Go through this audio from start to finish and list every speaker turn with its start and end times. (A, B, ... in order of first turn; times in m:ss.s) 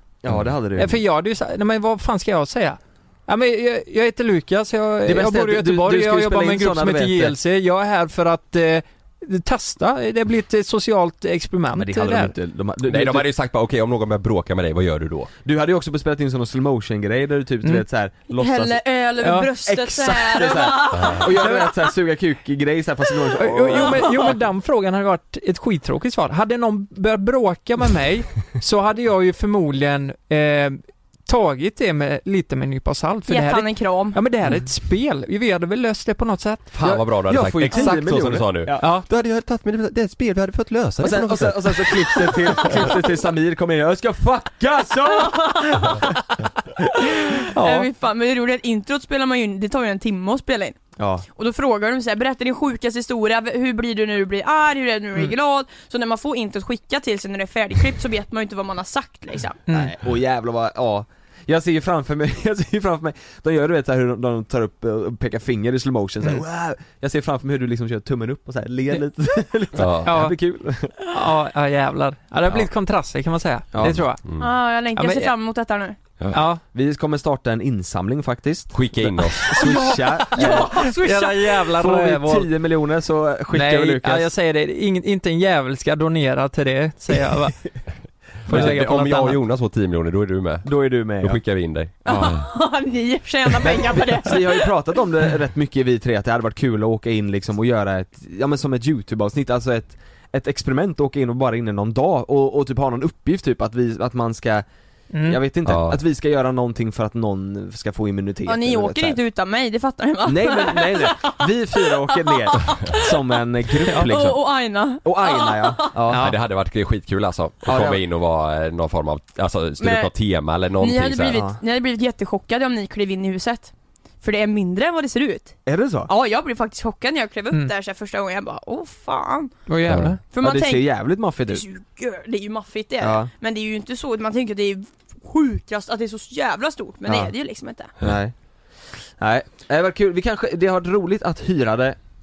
0:00.2-0:01.0 A
0:00.8-0:12.3 B
0:05.0-0:07.4 A
0:11.7-0:13.3 A
0:12.8-0:15.3 C
0:15.4-0:18.8 A
0:18.3-0:21.8 D
0:19.2-0:19.5 B
0:19.7-0:24.3 A
0:20.9-0:21.3 C
0:23.4-0:36.9 B
0:23.7-0:24.3 D
0:33.3-0:34.2 D
0:36.7-0:42.9 C
0:36.8-0:38.9 A
0:38.8-0:39.1 B
0:41.0-0:46.0 A
0:45.1-0:46.1 D
0:47.3-0:50.8 D
0:47.6-0:47.9 C
0:51.0-0:51.3 A
0:51.4-0:59.6 D
0:59.7-1:11.0 A
1:09.8-1:10.2 C
1:10.1-1:10.4 B
1:11.0-1:14.3 B
1:13.7-1:14.0 A
1:13.8-1:14.5 C
1:14.4-1:16.0 D
1:15.0-1:15.3 B
1:16.3-1:16.6 B
1:16.7-1:20.7 A
1:18.7-1:19.6 C
1:19.6-1:21.6 D
1:19.9-1:22.5 B
1:21.7-1:24.3 A
1:23.5-1:27.9 B
1:28.4-1:29.4 B
1:28.4-1:32.5 C
1:28.5-1:28.8 A
1:30.6-1:31.4 A
1:32.0-1:32.3 A
1:32.0-1:34.7 D
1:33.7-1:44.6 A
1:45.1-1:45.4 B
1:45.2-1:49.2 A
1:45.7-1:46.0 C
1:48.5-1:56.0 D
1:50.2-1:54.4 A
1:55.0-1:56.3 A
1:56.1-1:56.4 B
1:56.1-2:01.4 C
1:57.6-1:58.0 A
1:59.8-2:00.1 D
2:00.8-2:09.6 D
2:01.3-2:01.6 A
2:05.7-2:06.1 A
2:09.7-2:10.2 B
2:09.9-2:10.2 C
2:10.3-2:10.9 D
2:10.4-2:11.6 A
2:11.5-2:17.9 D
2:13.0-2:13.3 A
2:17.1-2:17.3 A
2:18.0-2:18.4 A
2:19.2-2:22.0 A